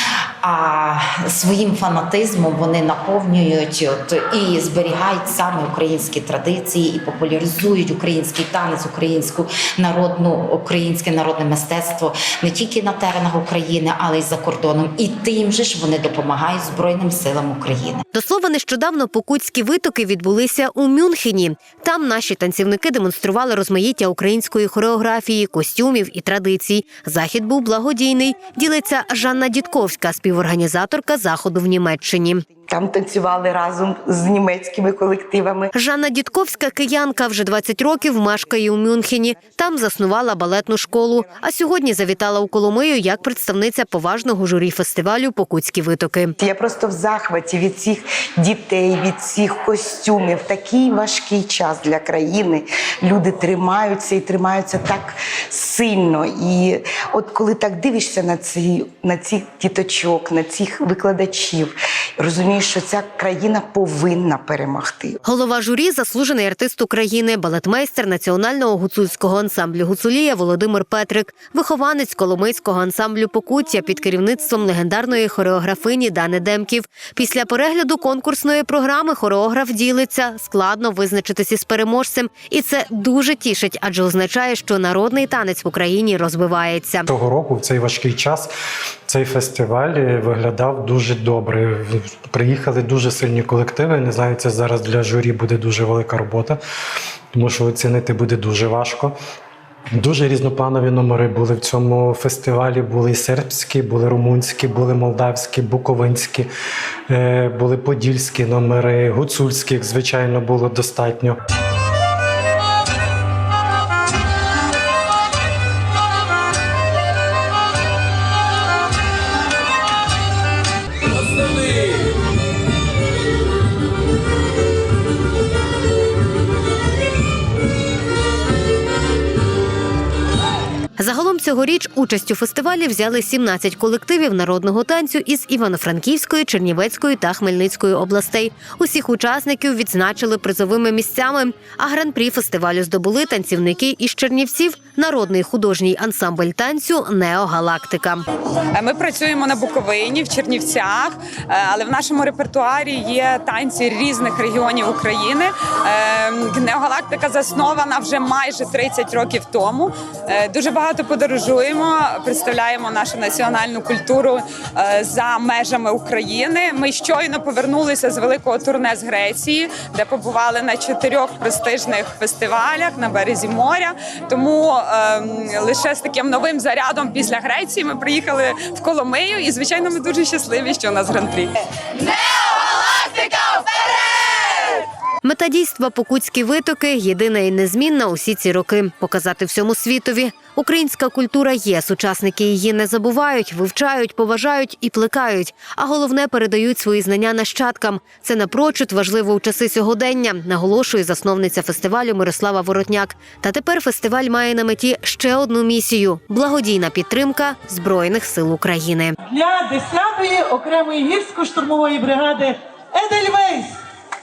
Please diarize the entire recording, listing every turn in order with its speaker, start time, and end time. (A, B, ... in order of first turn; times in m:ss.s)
0:00.4-0:18.0 A
0:18.1-0:32.4 B
0:32.7-0:35.7 C
0:35.7-0:46.4 B
0:46.4-1:05.2 C
1:05.2-1:27.1 B
1:27.1-1:28.5 D
1:29.1-1:36.6 D
1:37.3-1:39.2 D
1:40.0-1:46.5 D
1:47.1-1:51.4 D
2:11.0-2:28.2 B
2:28.8-3:04.4 E
3:05.2-3:29.2 B
3:29.2-3:33.8 F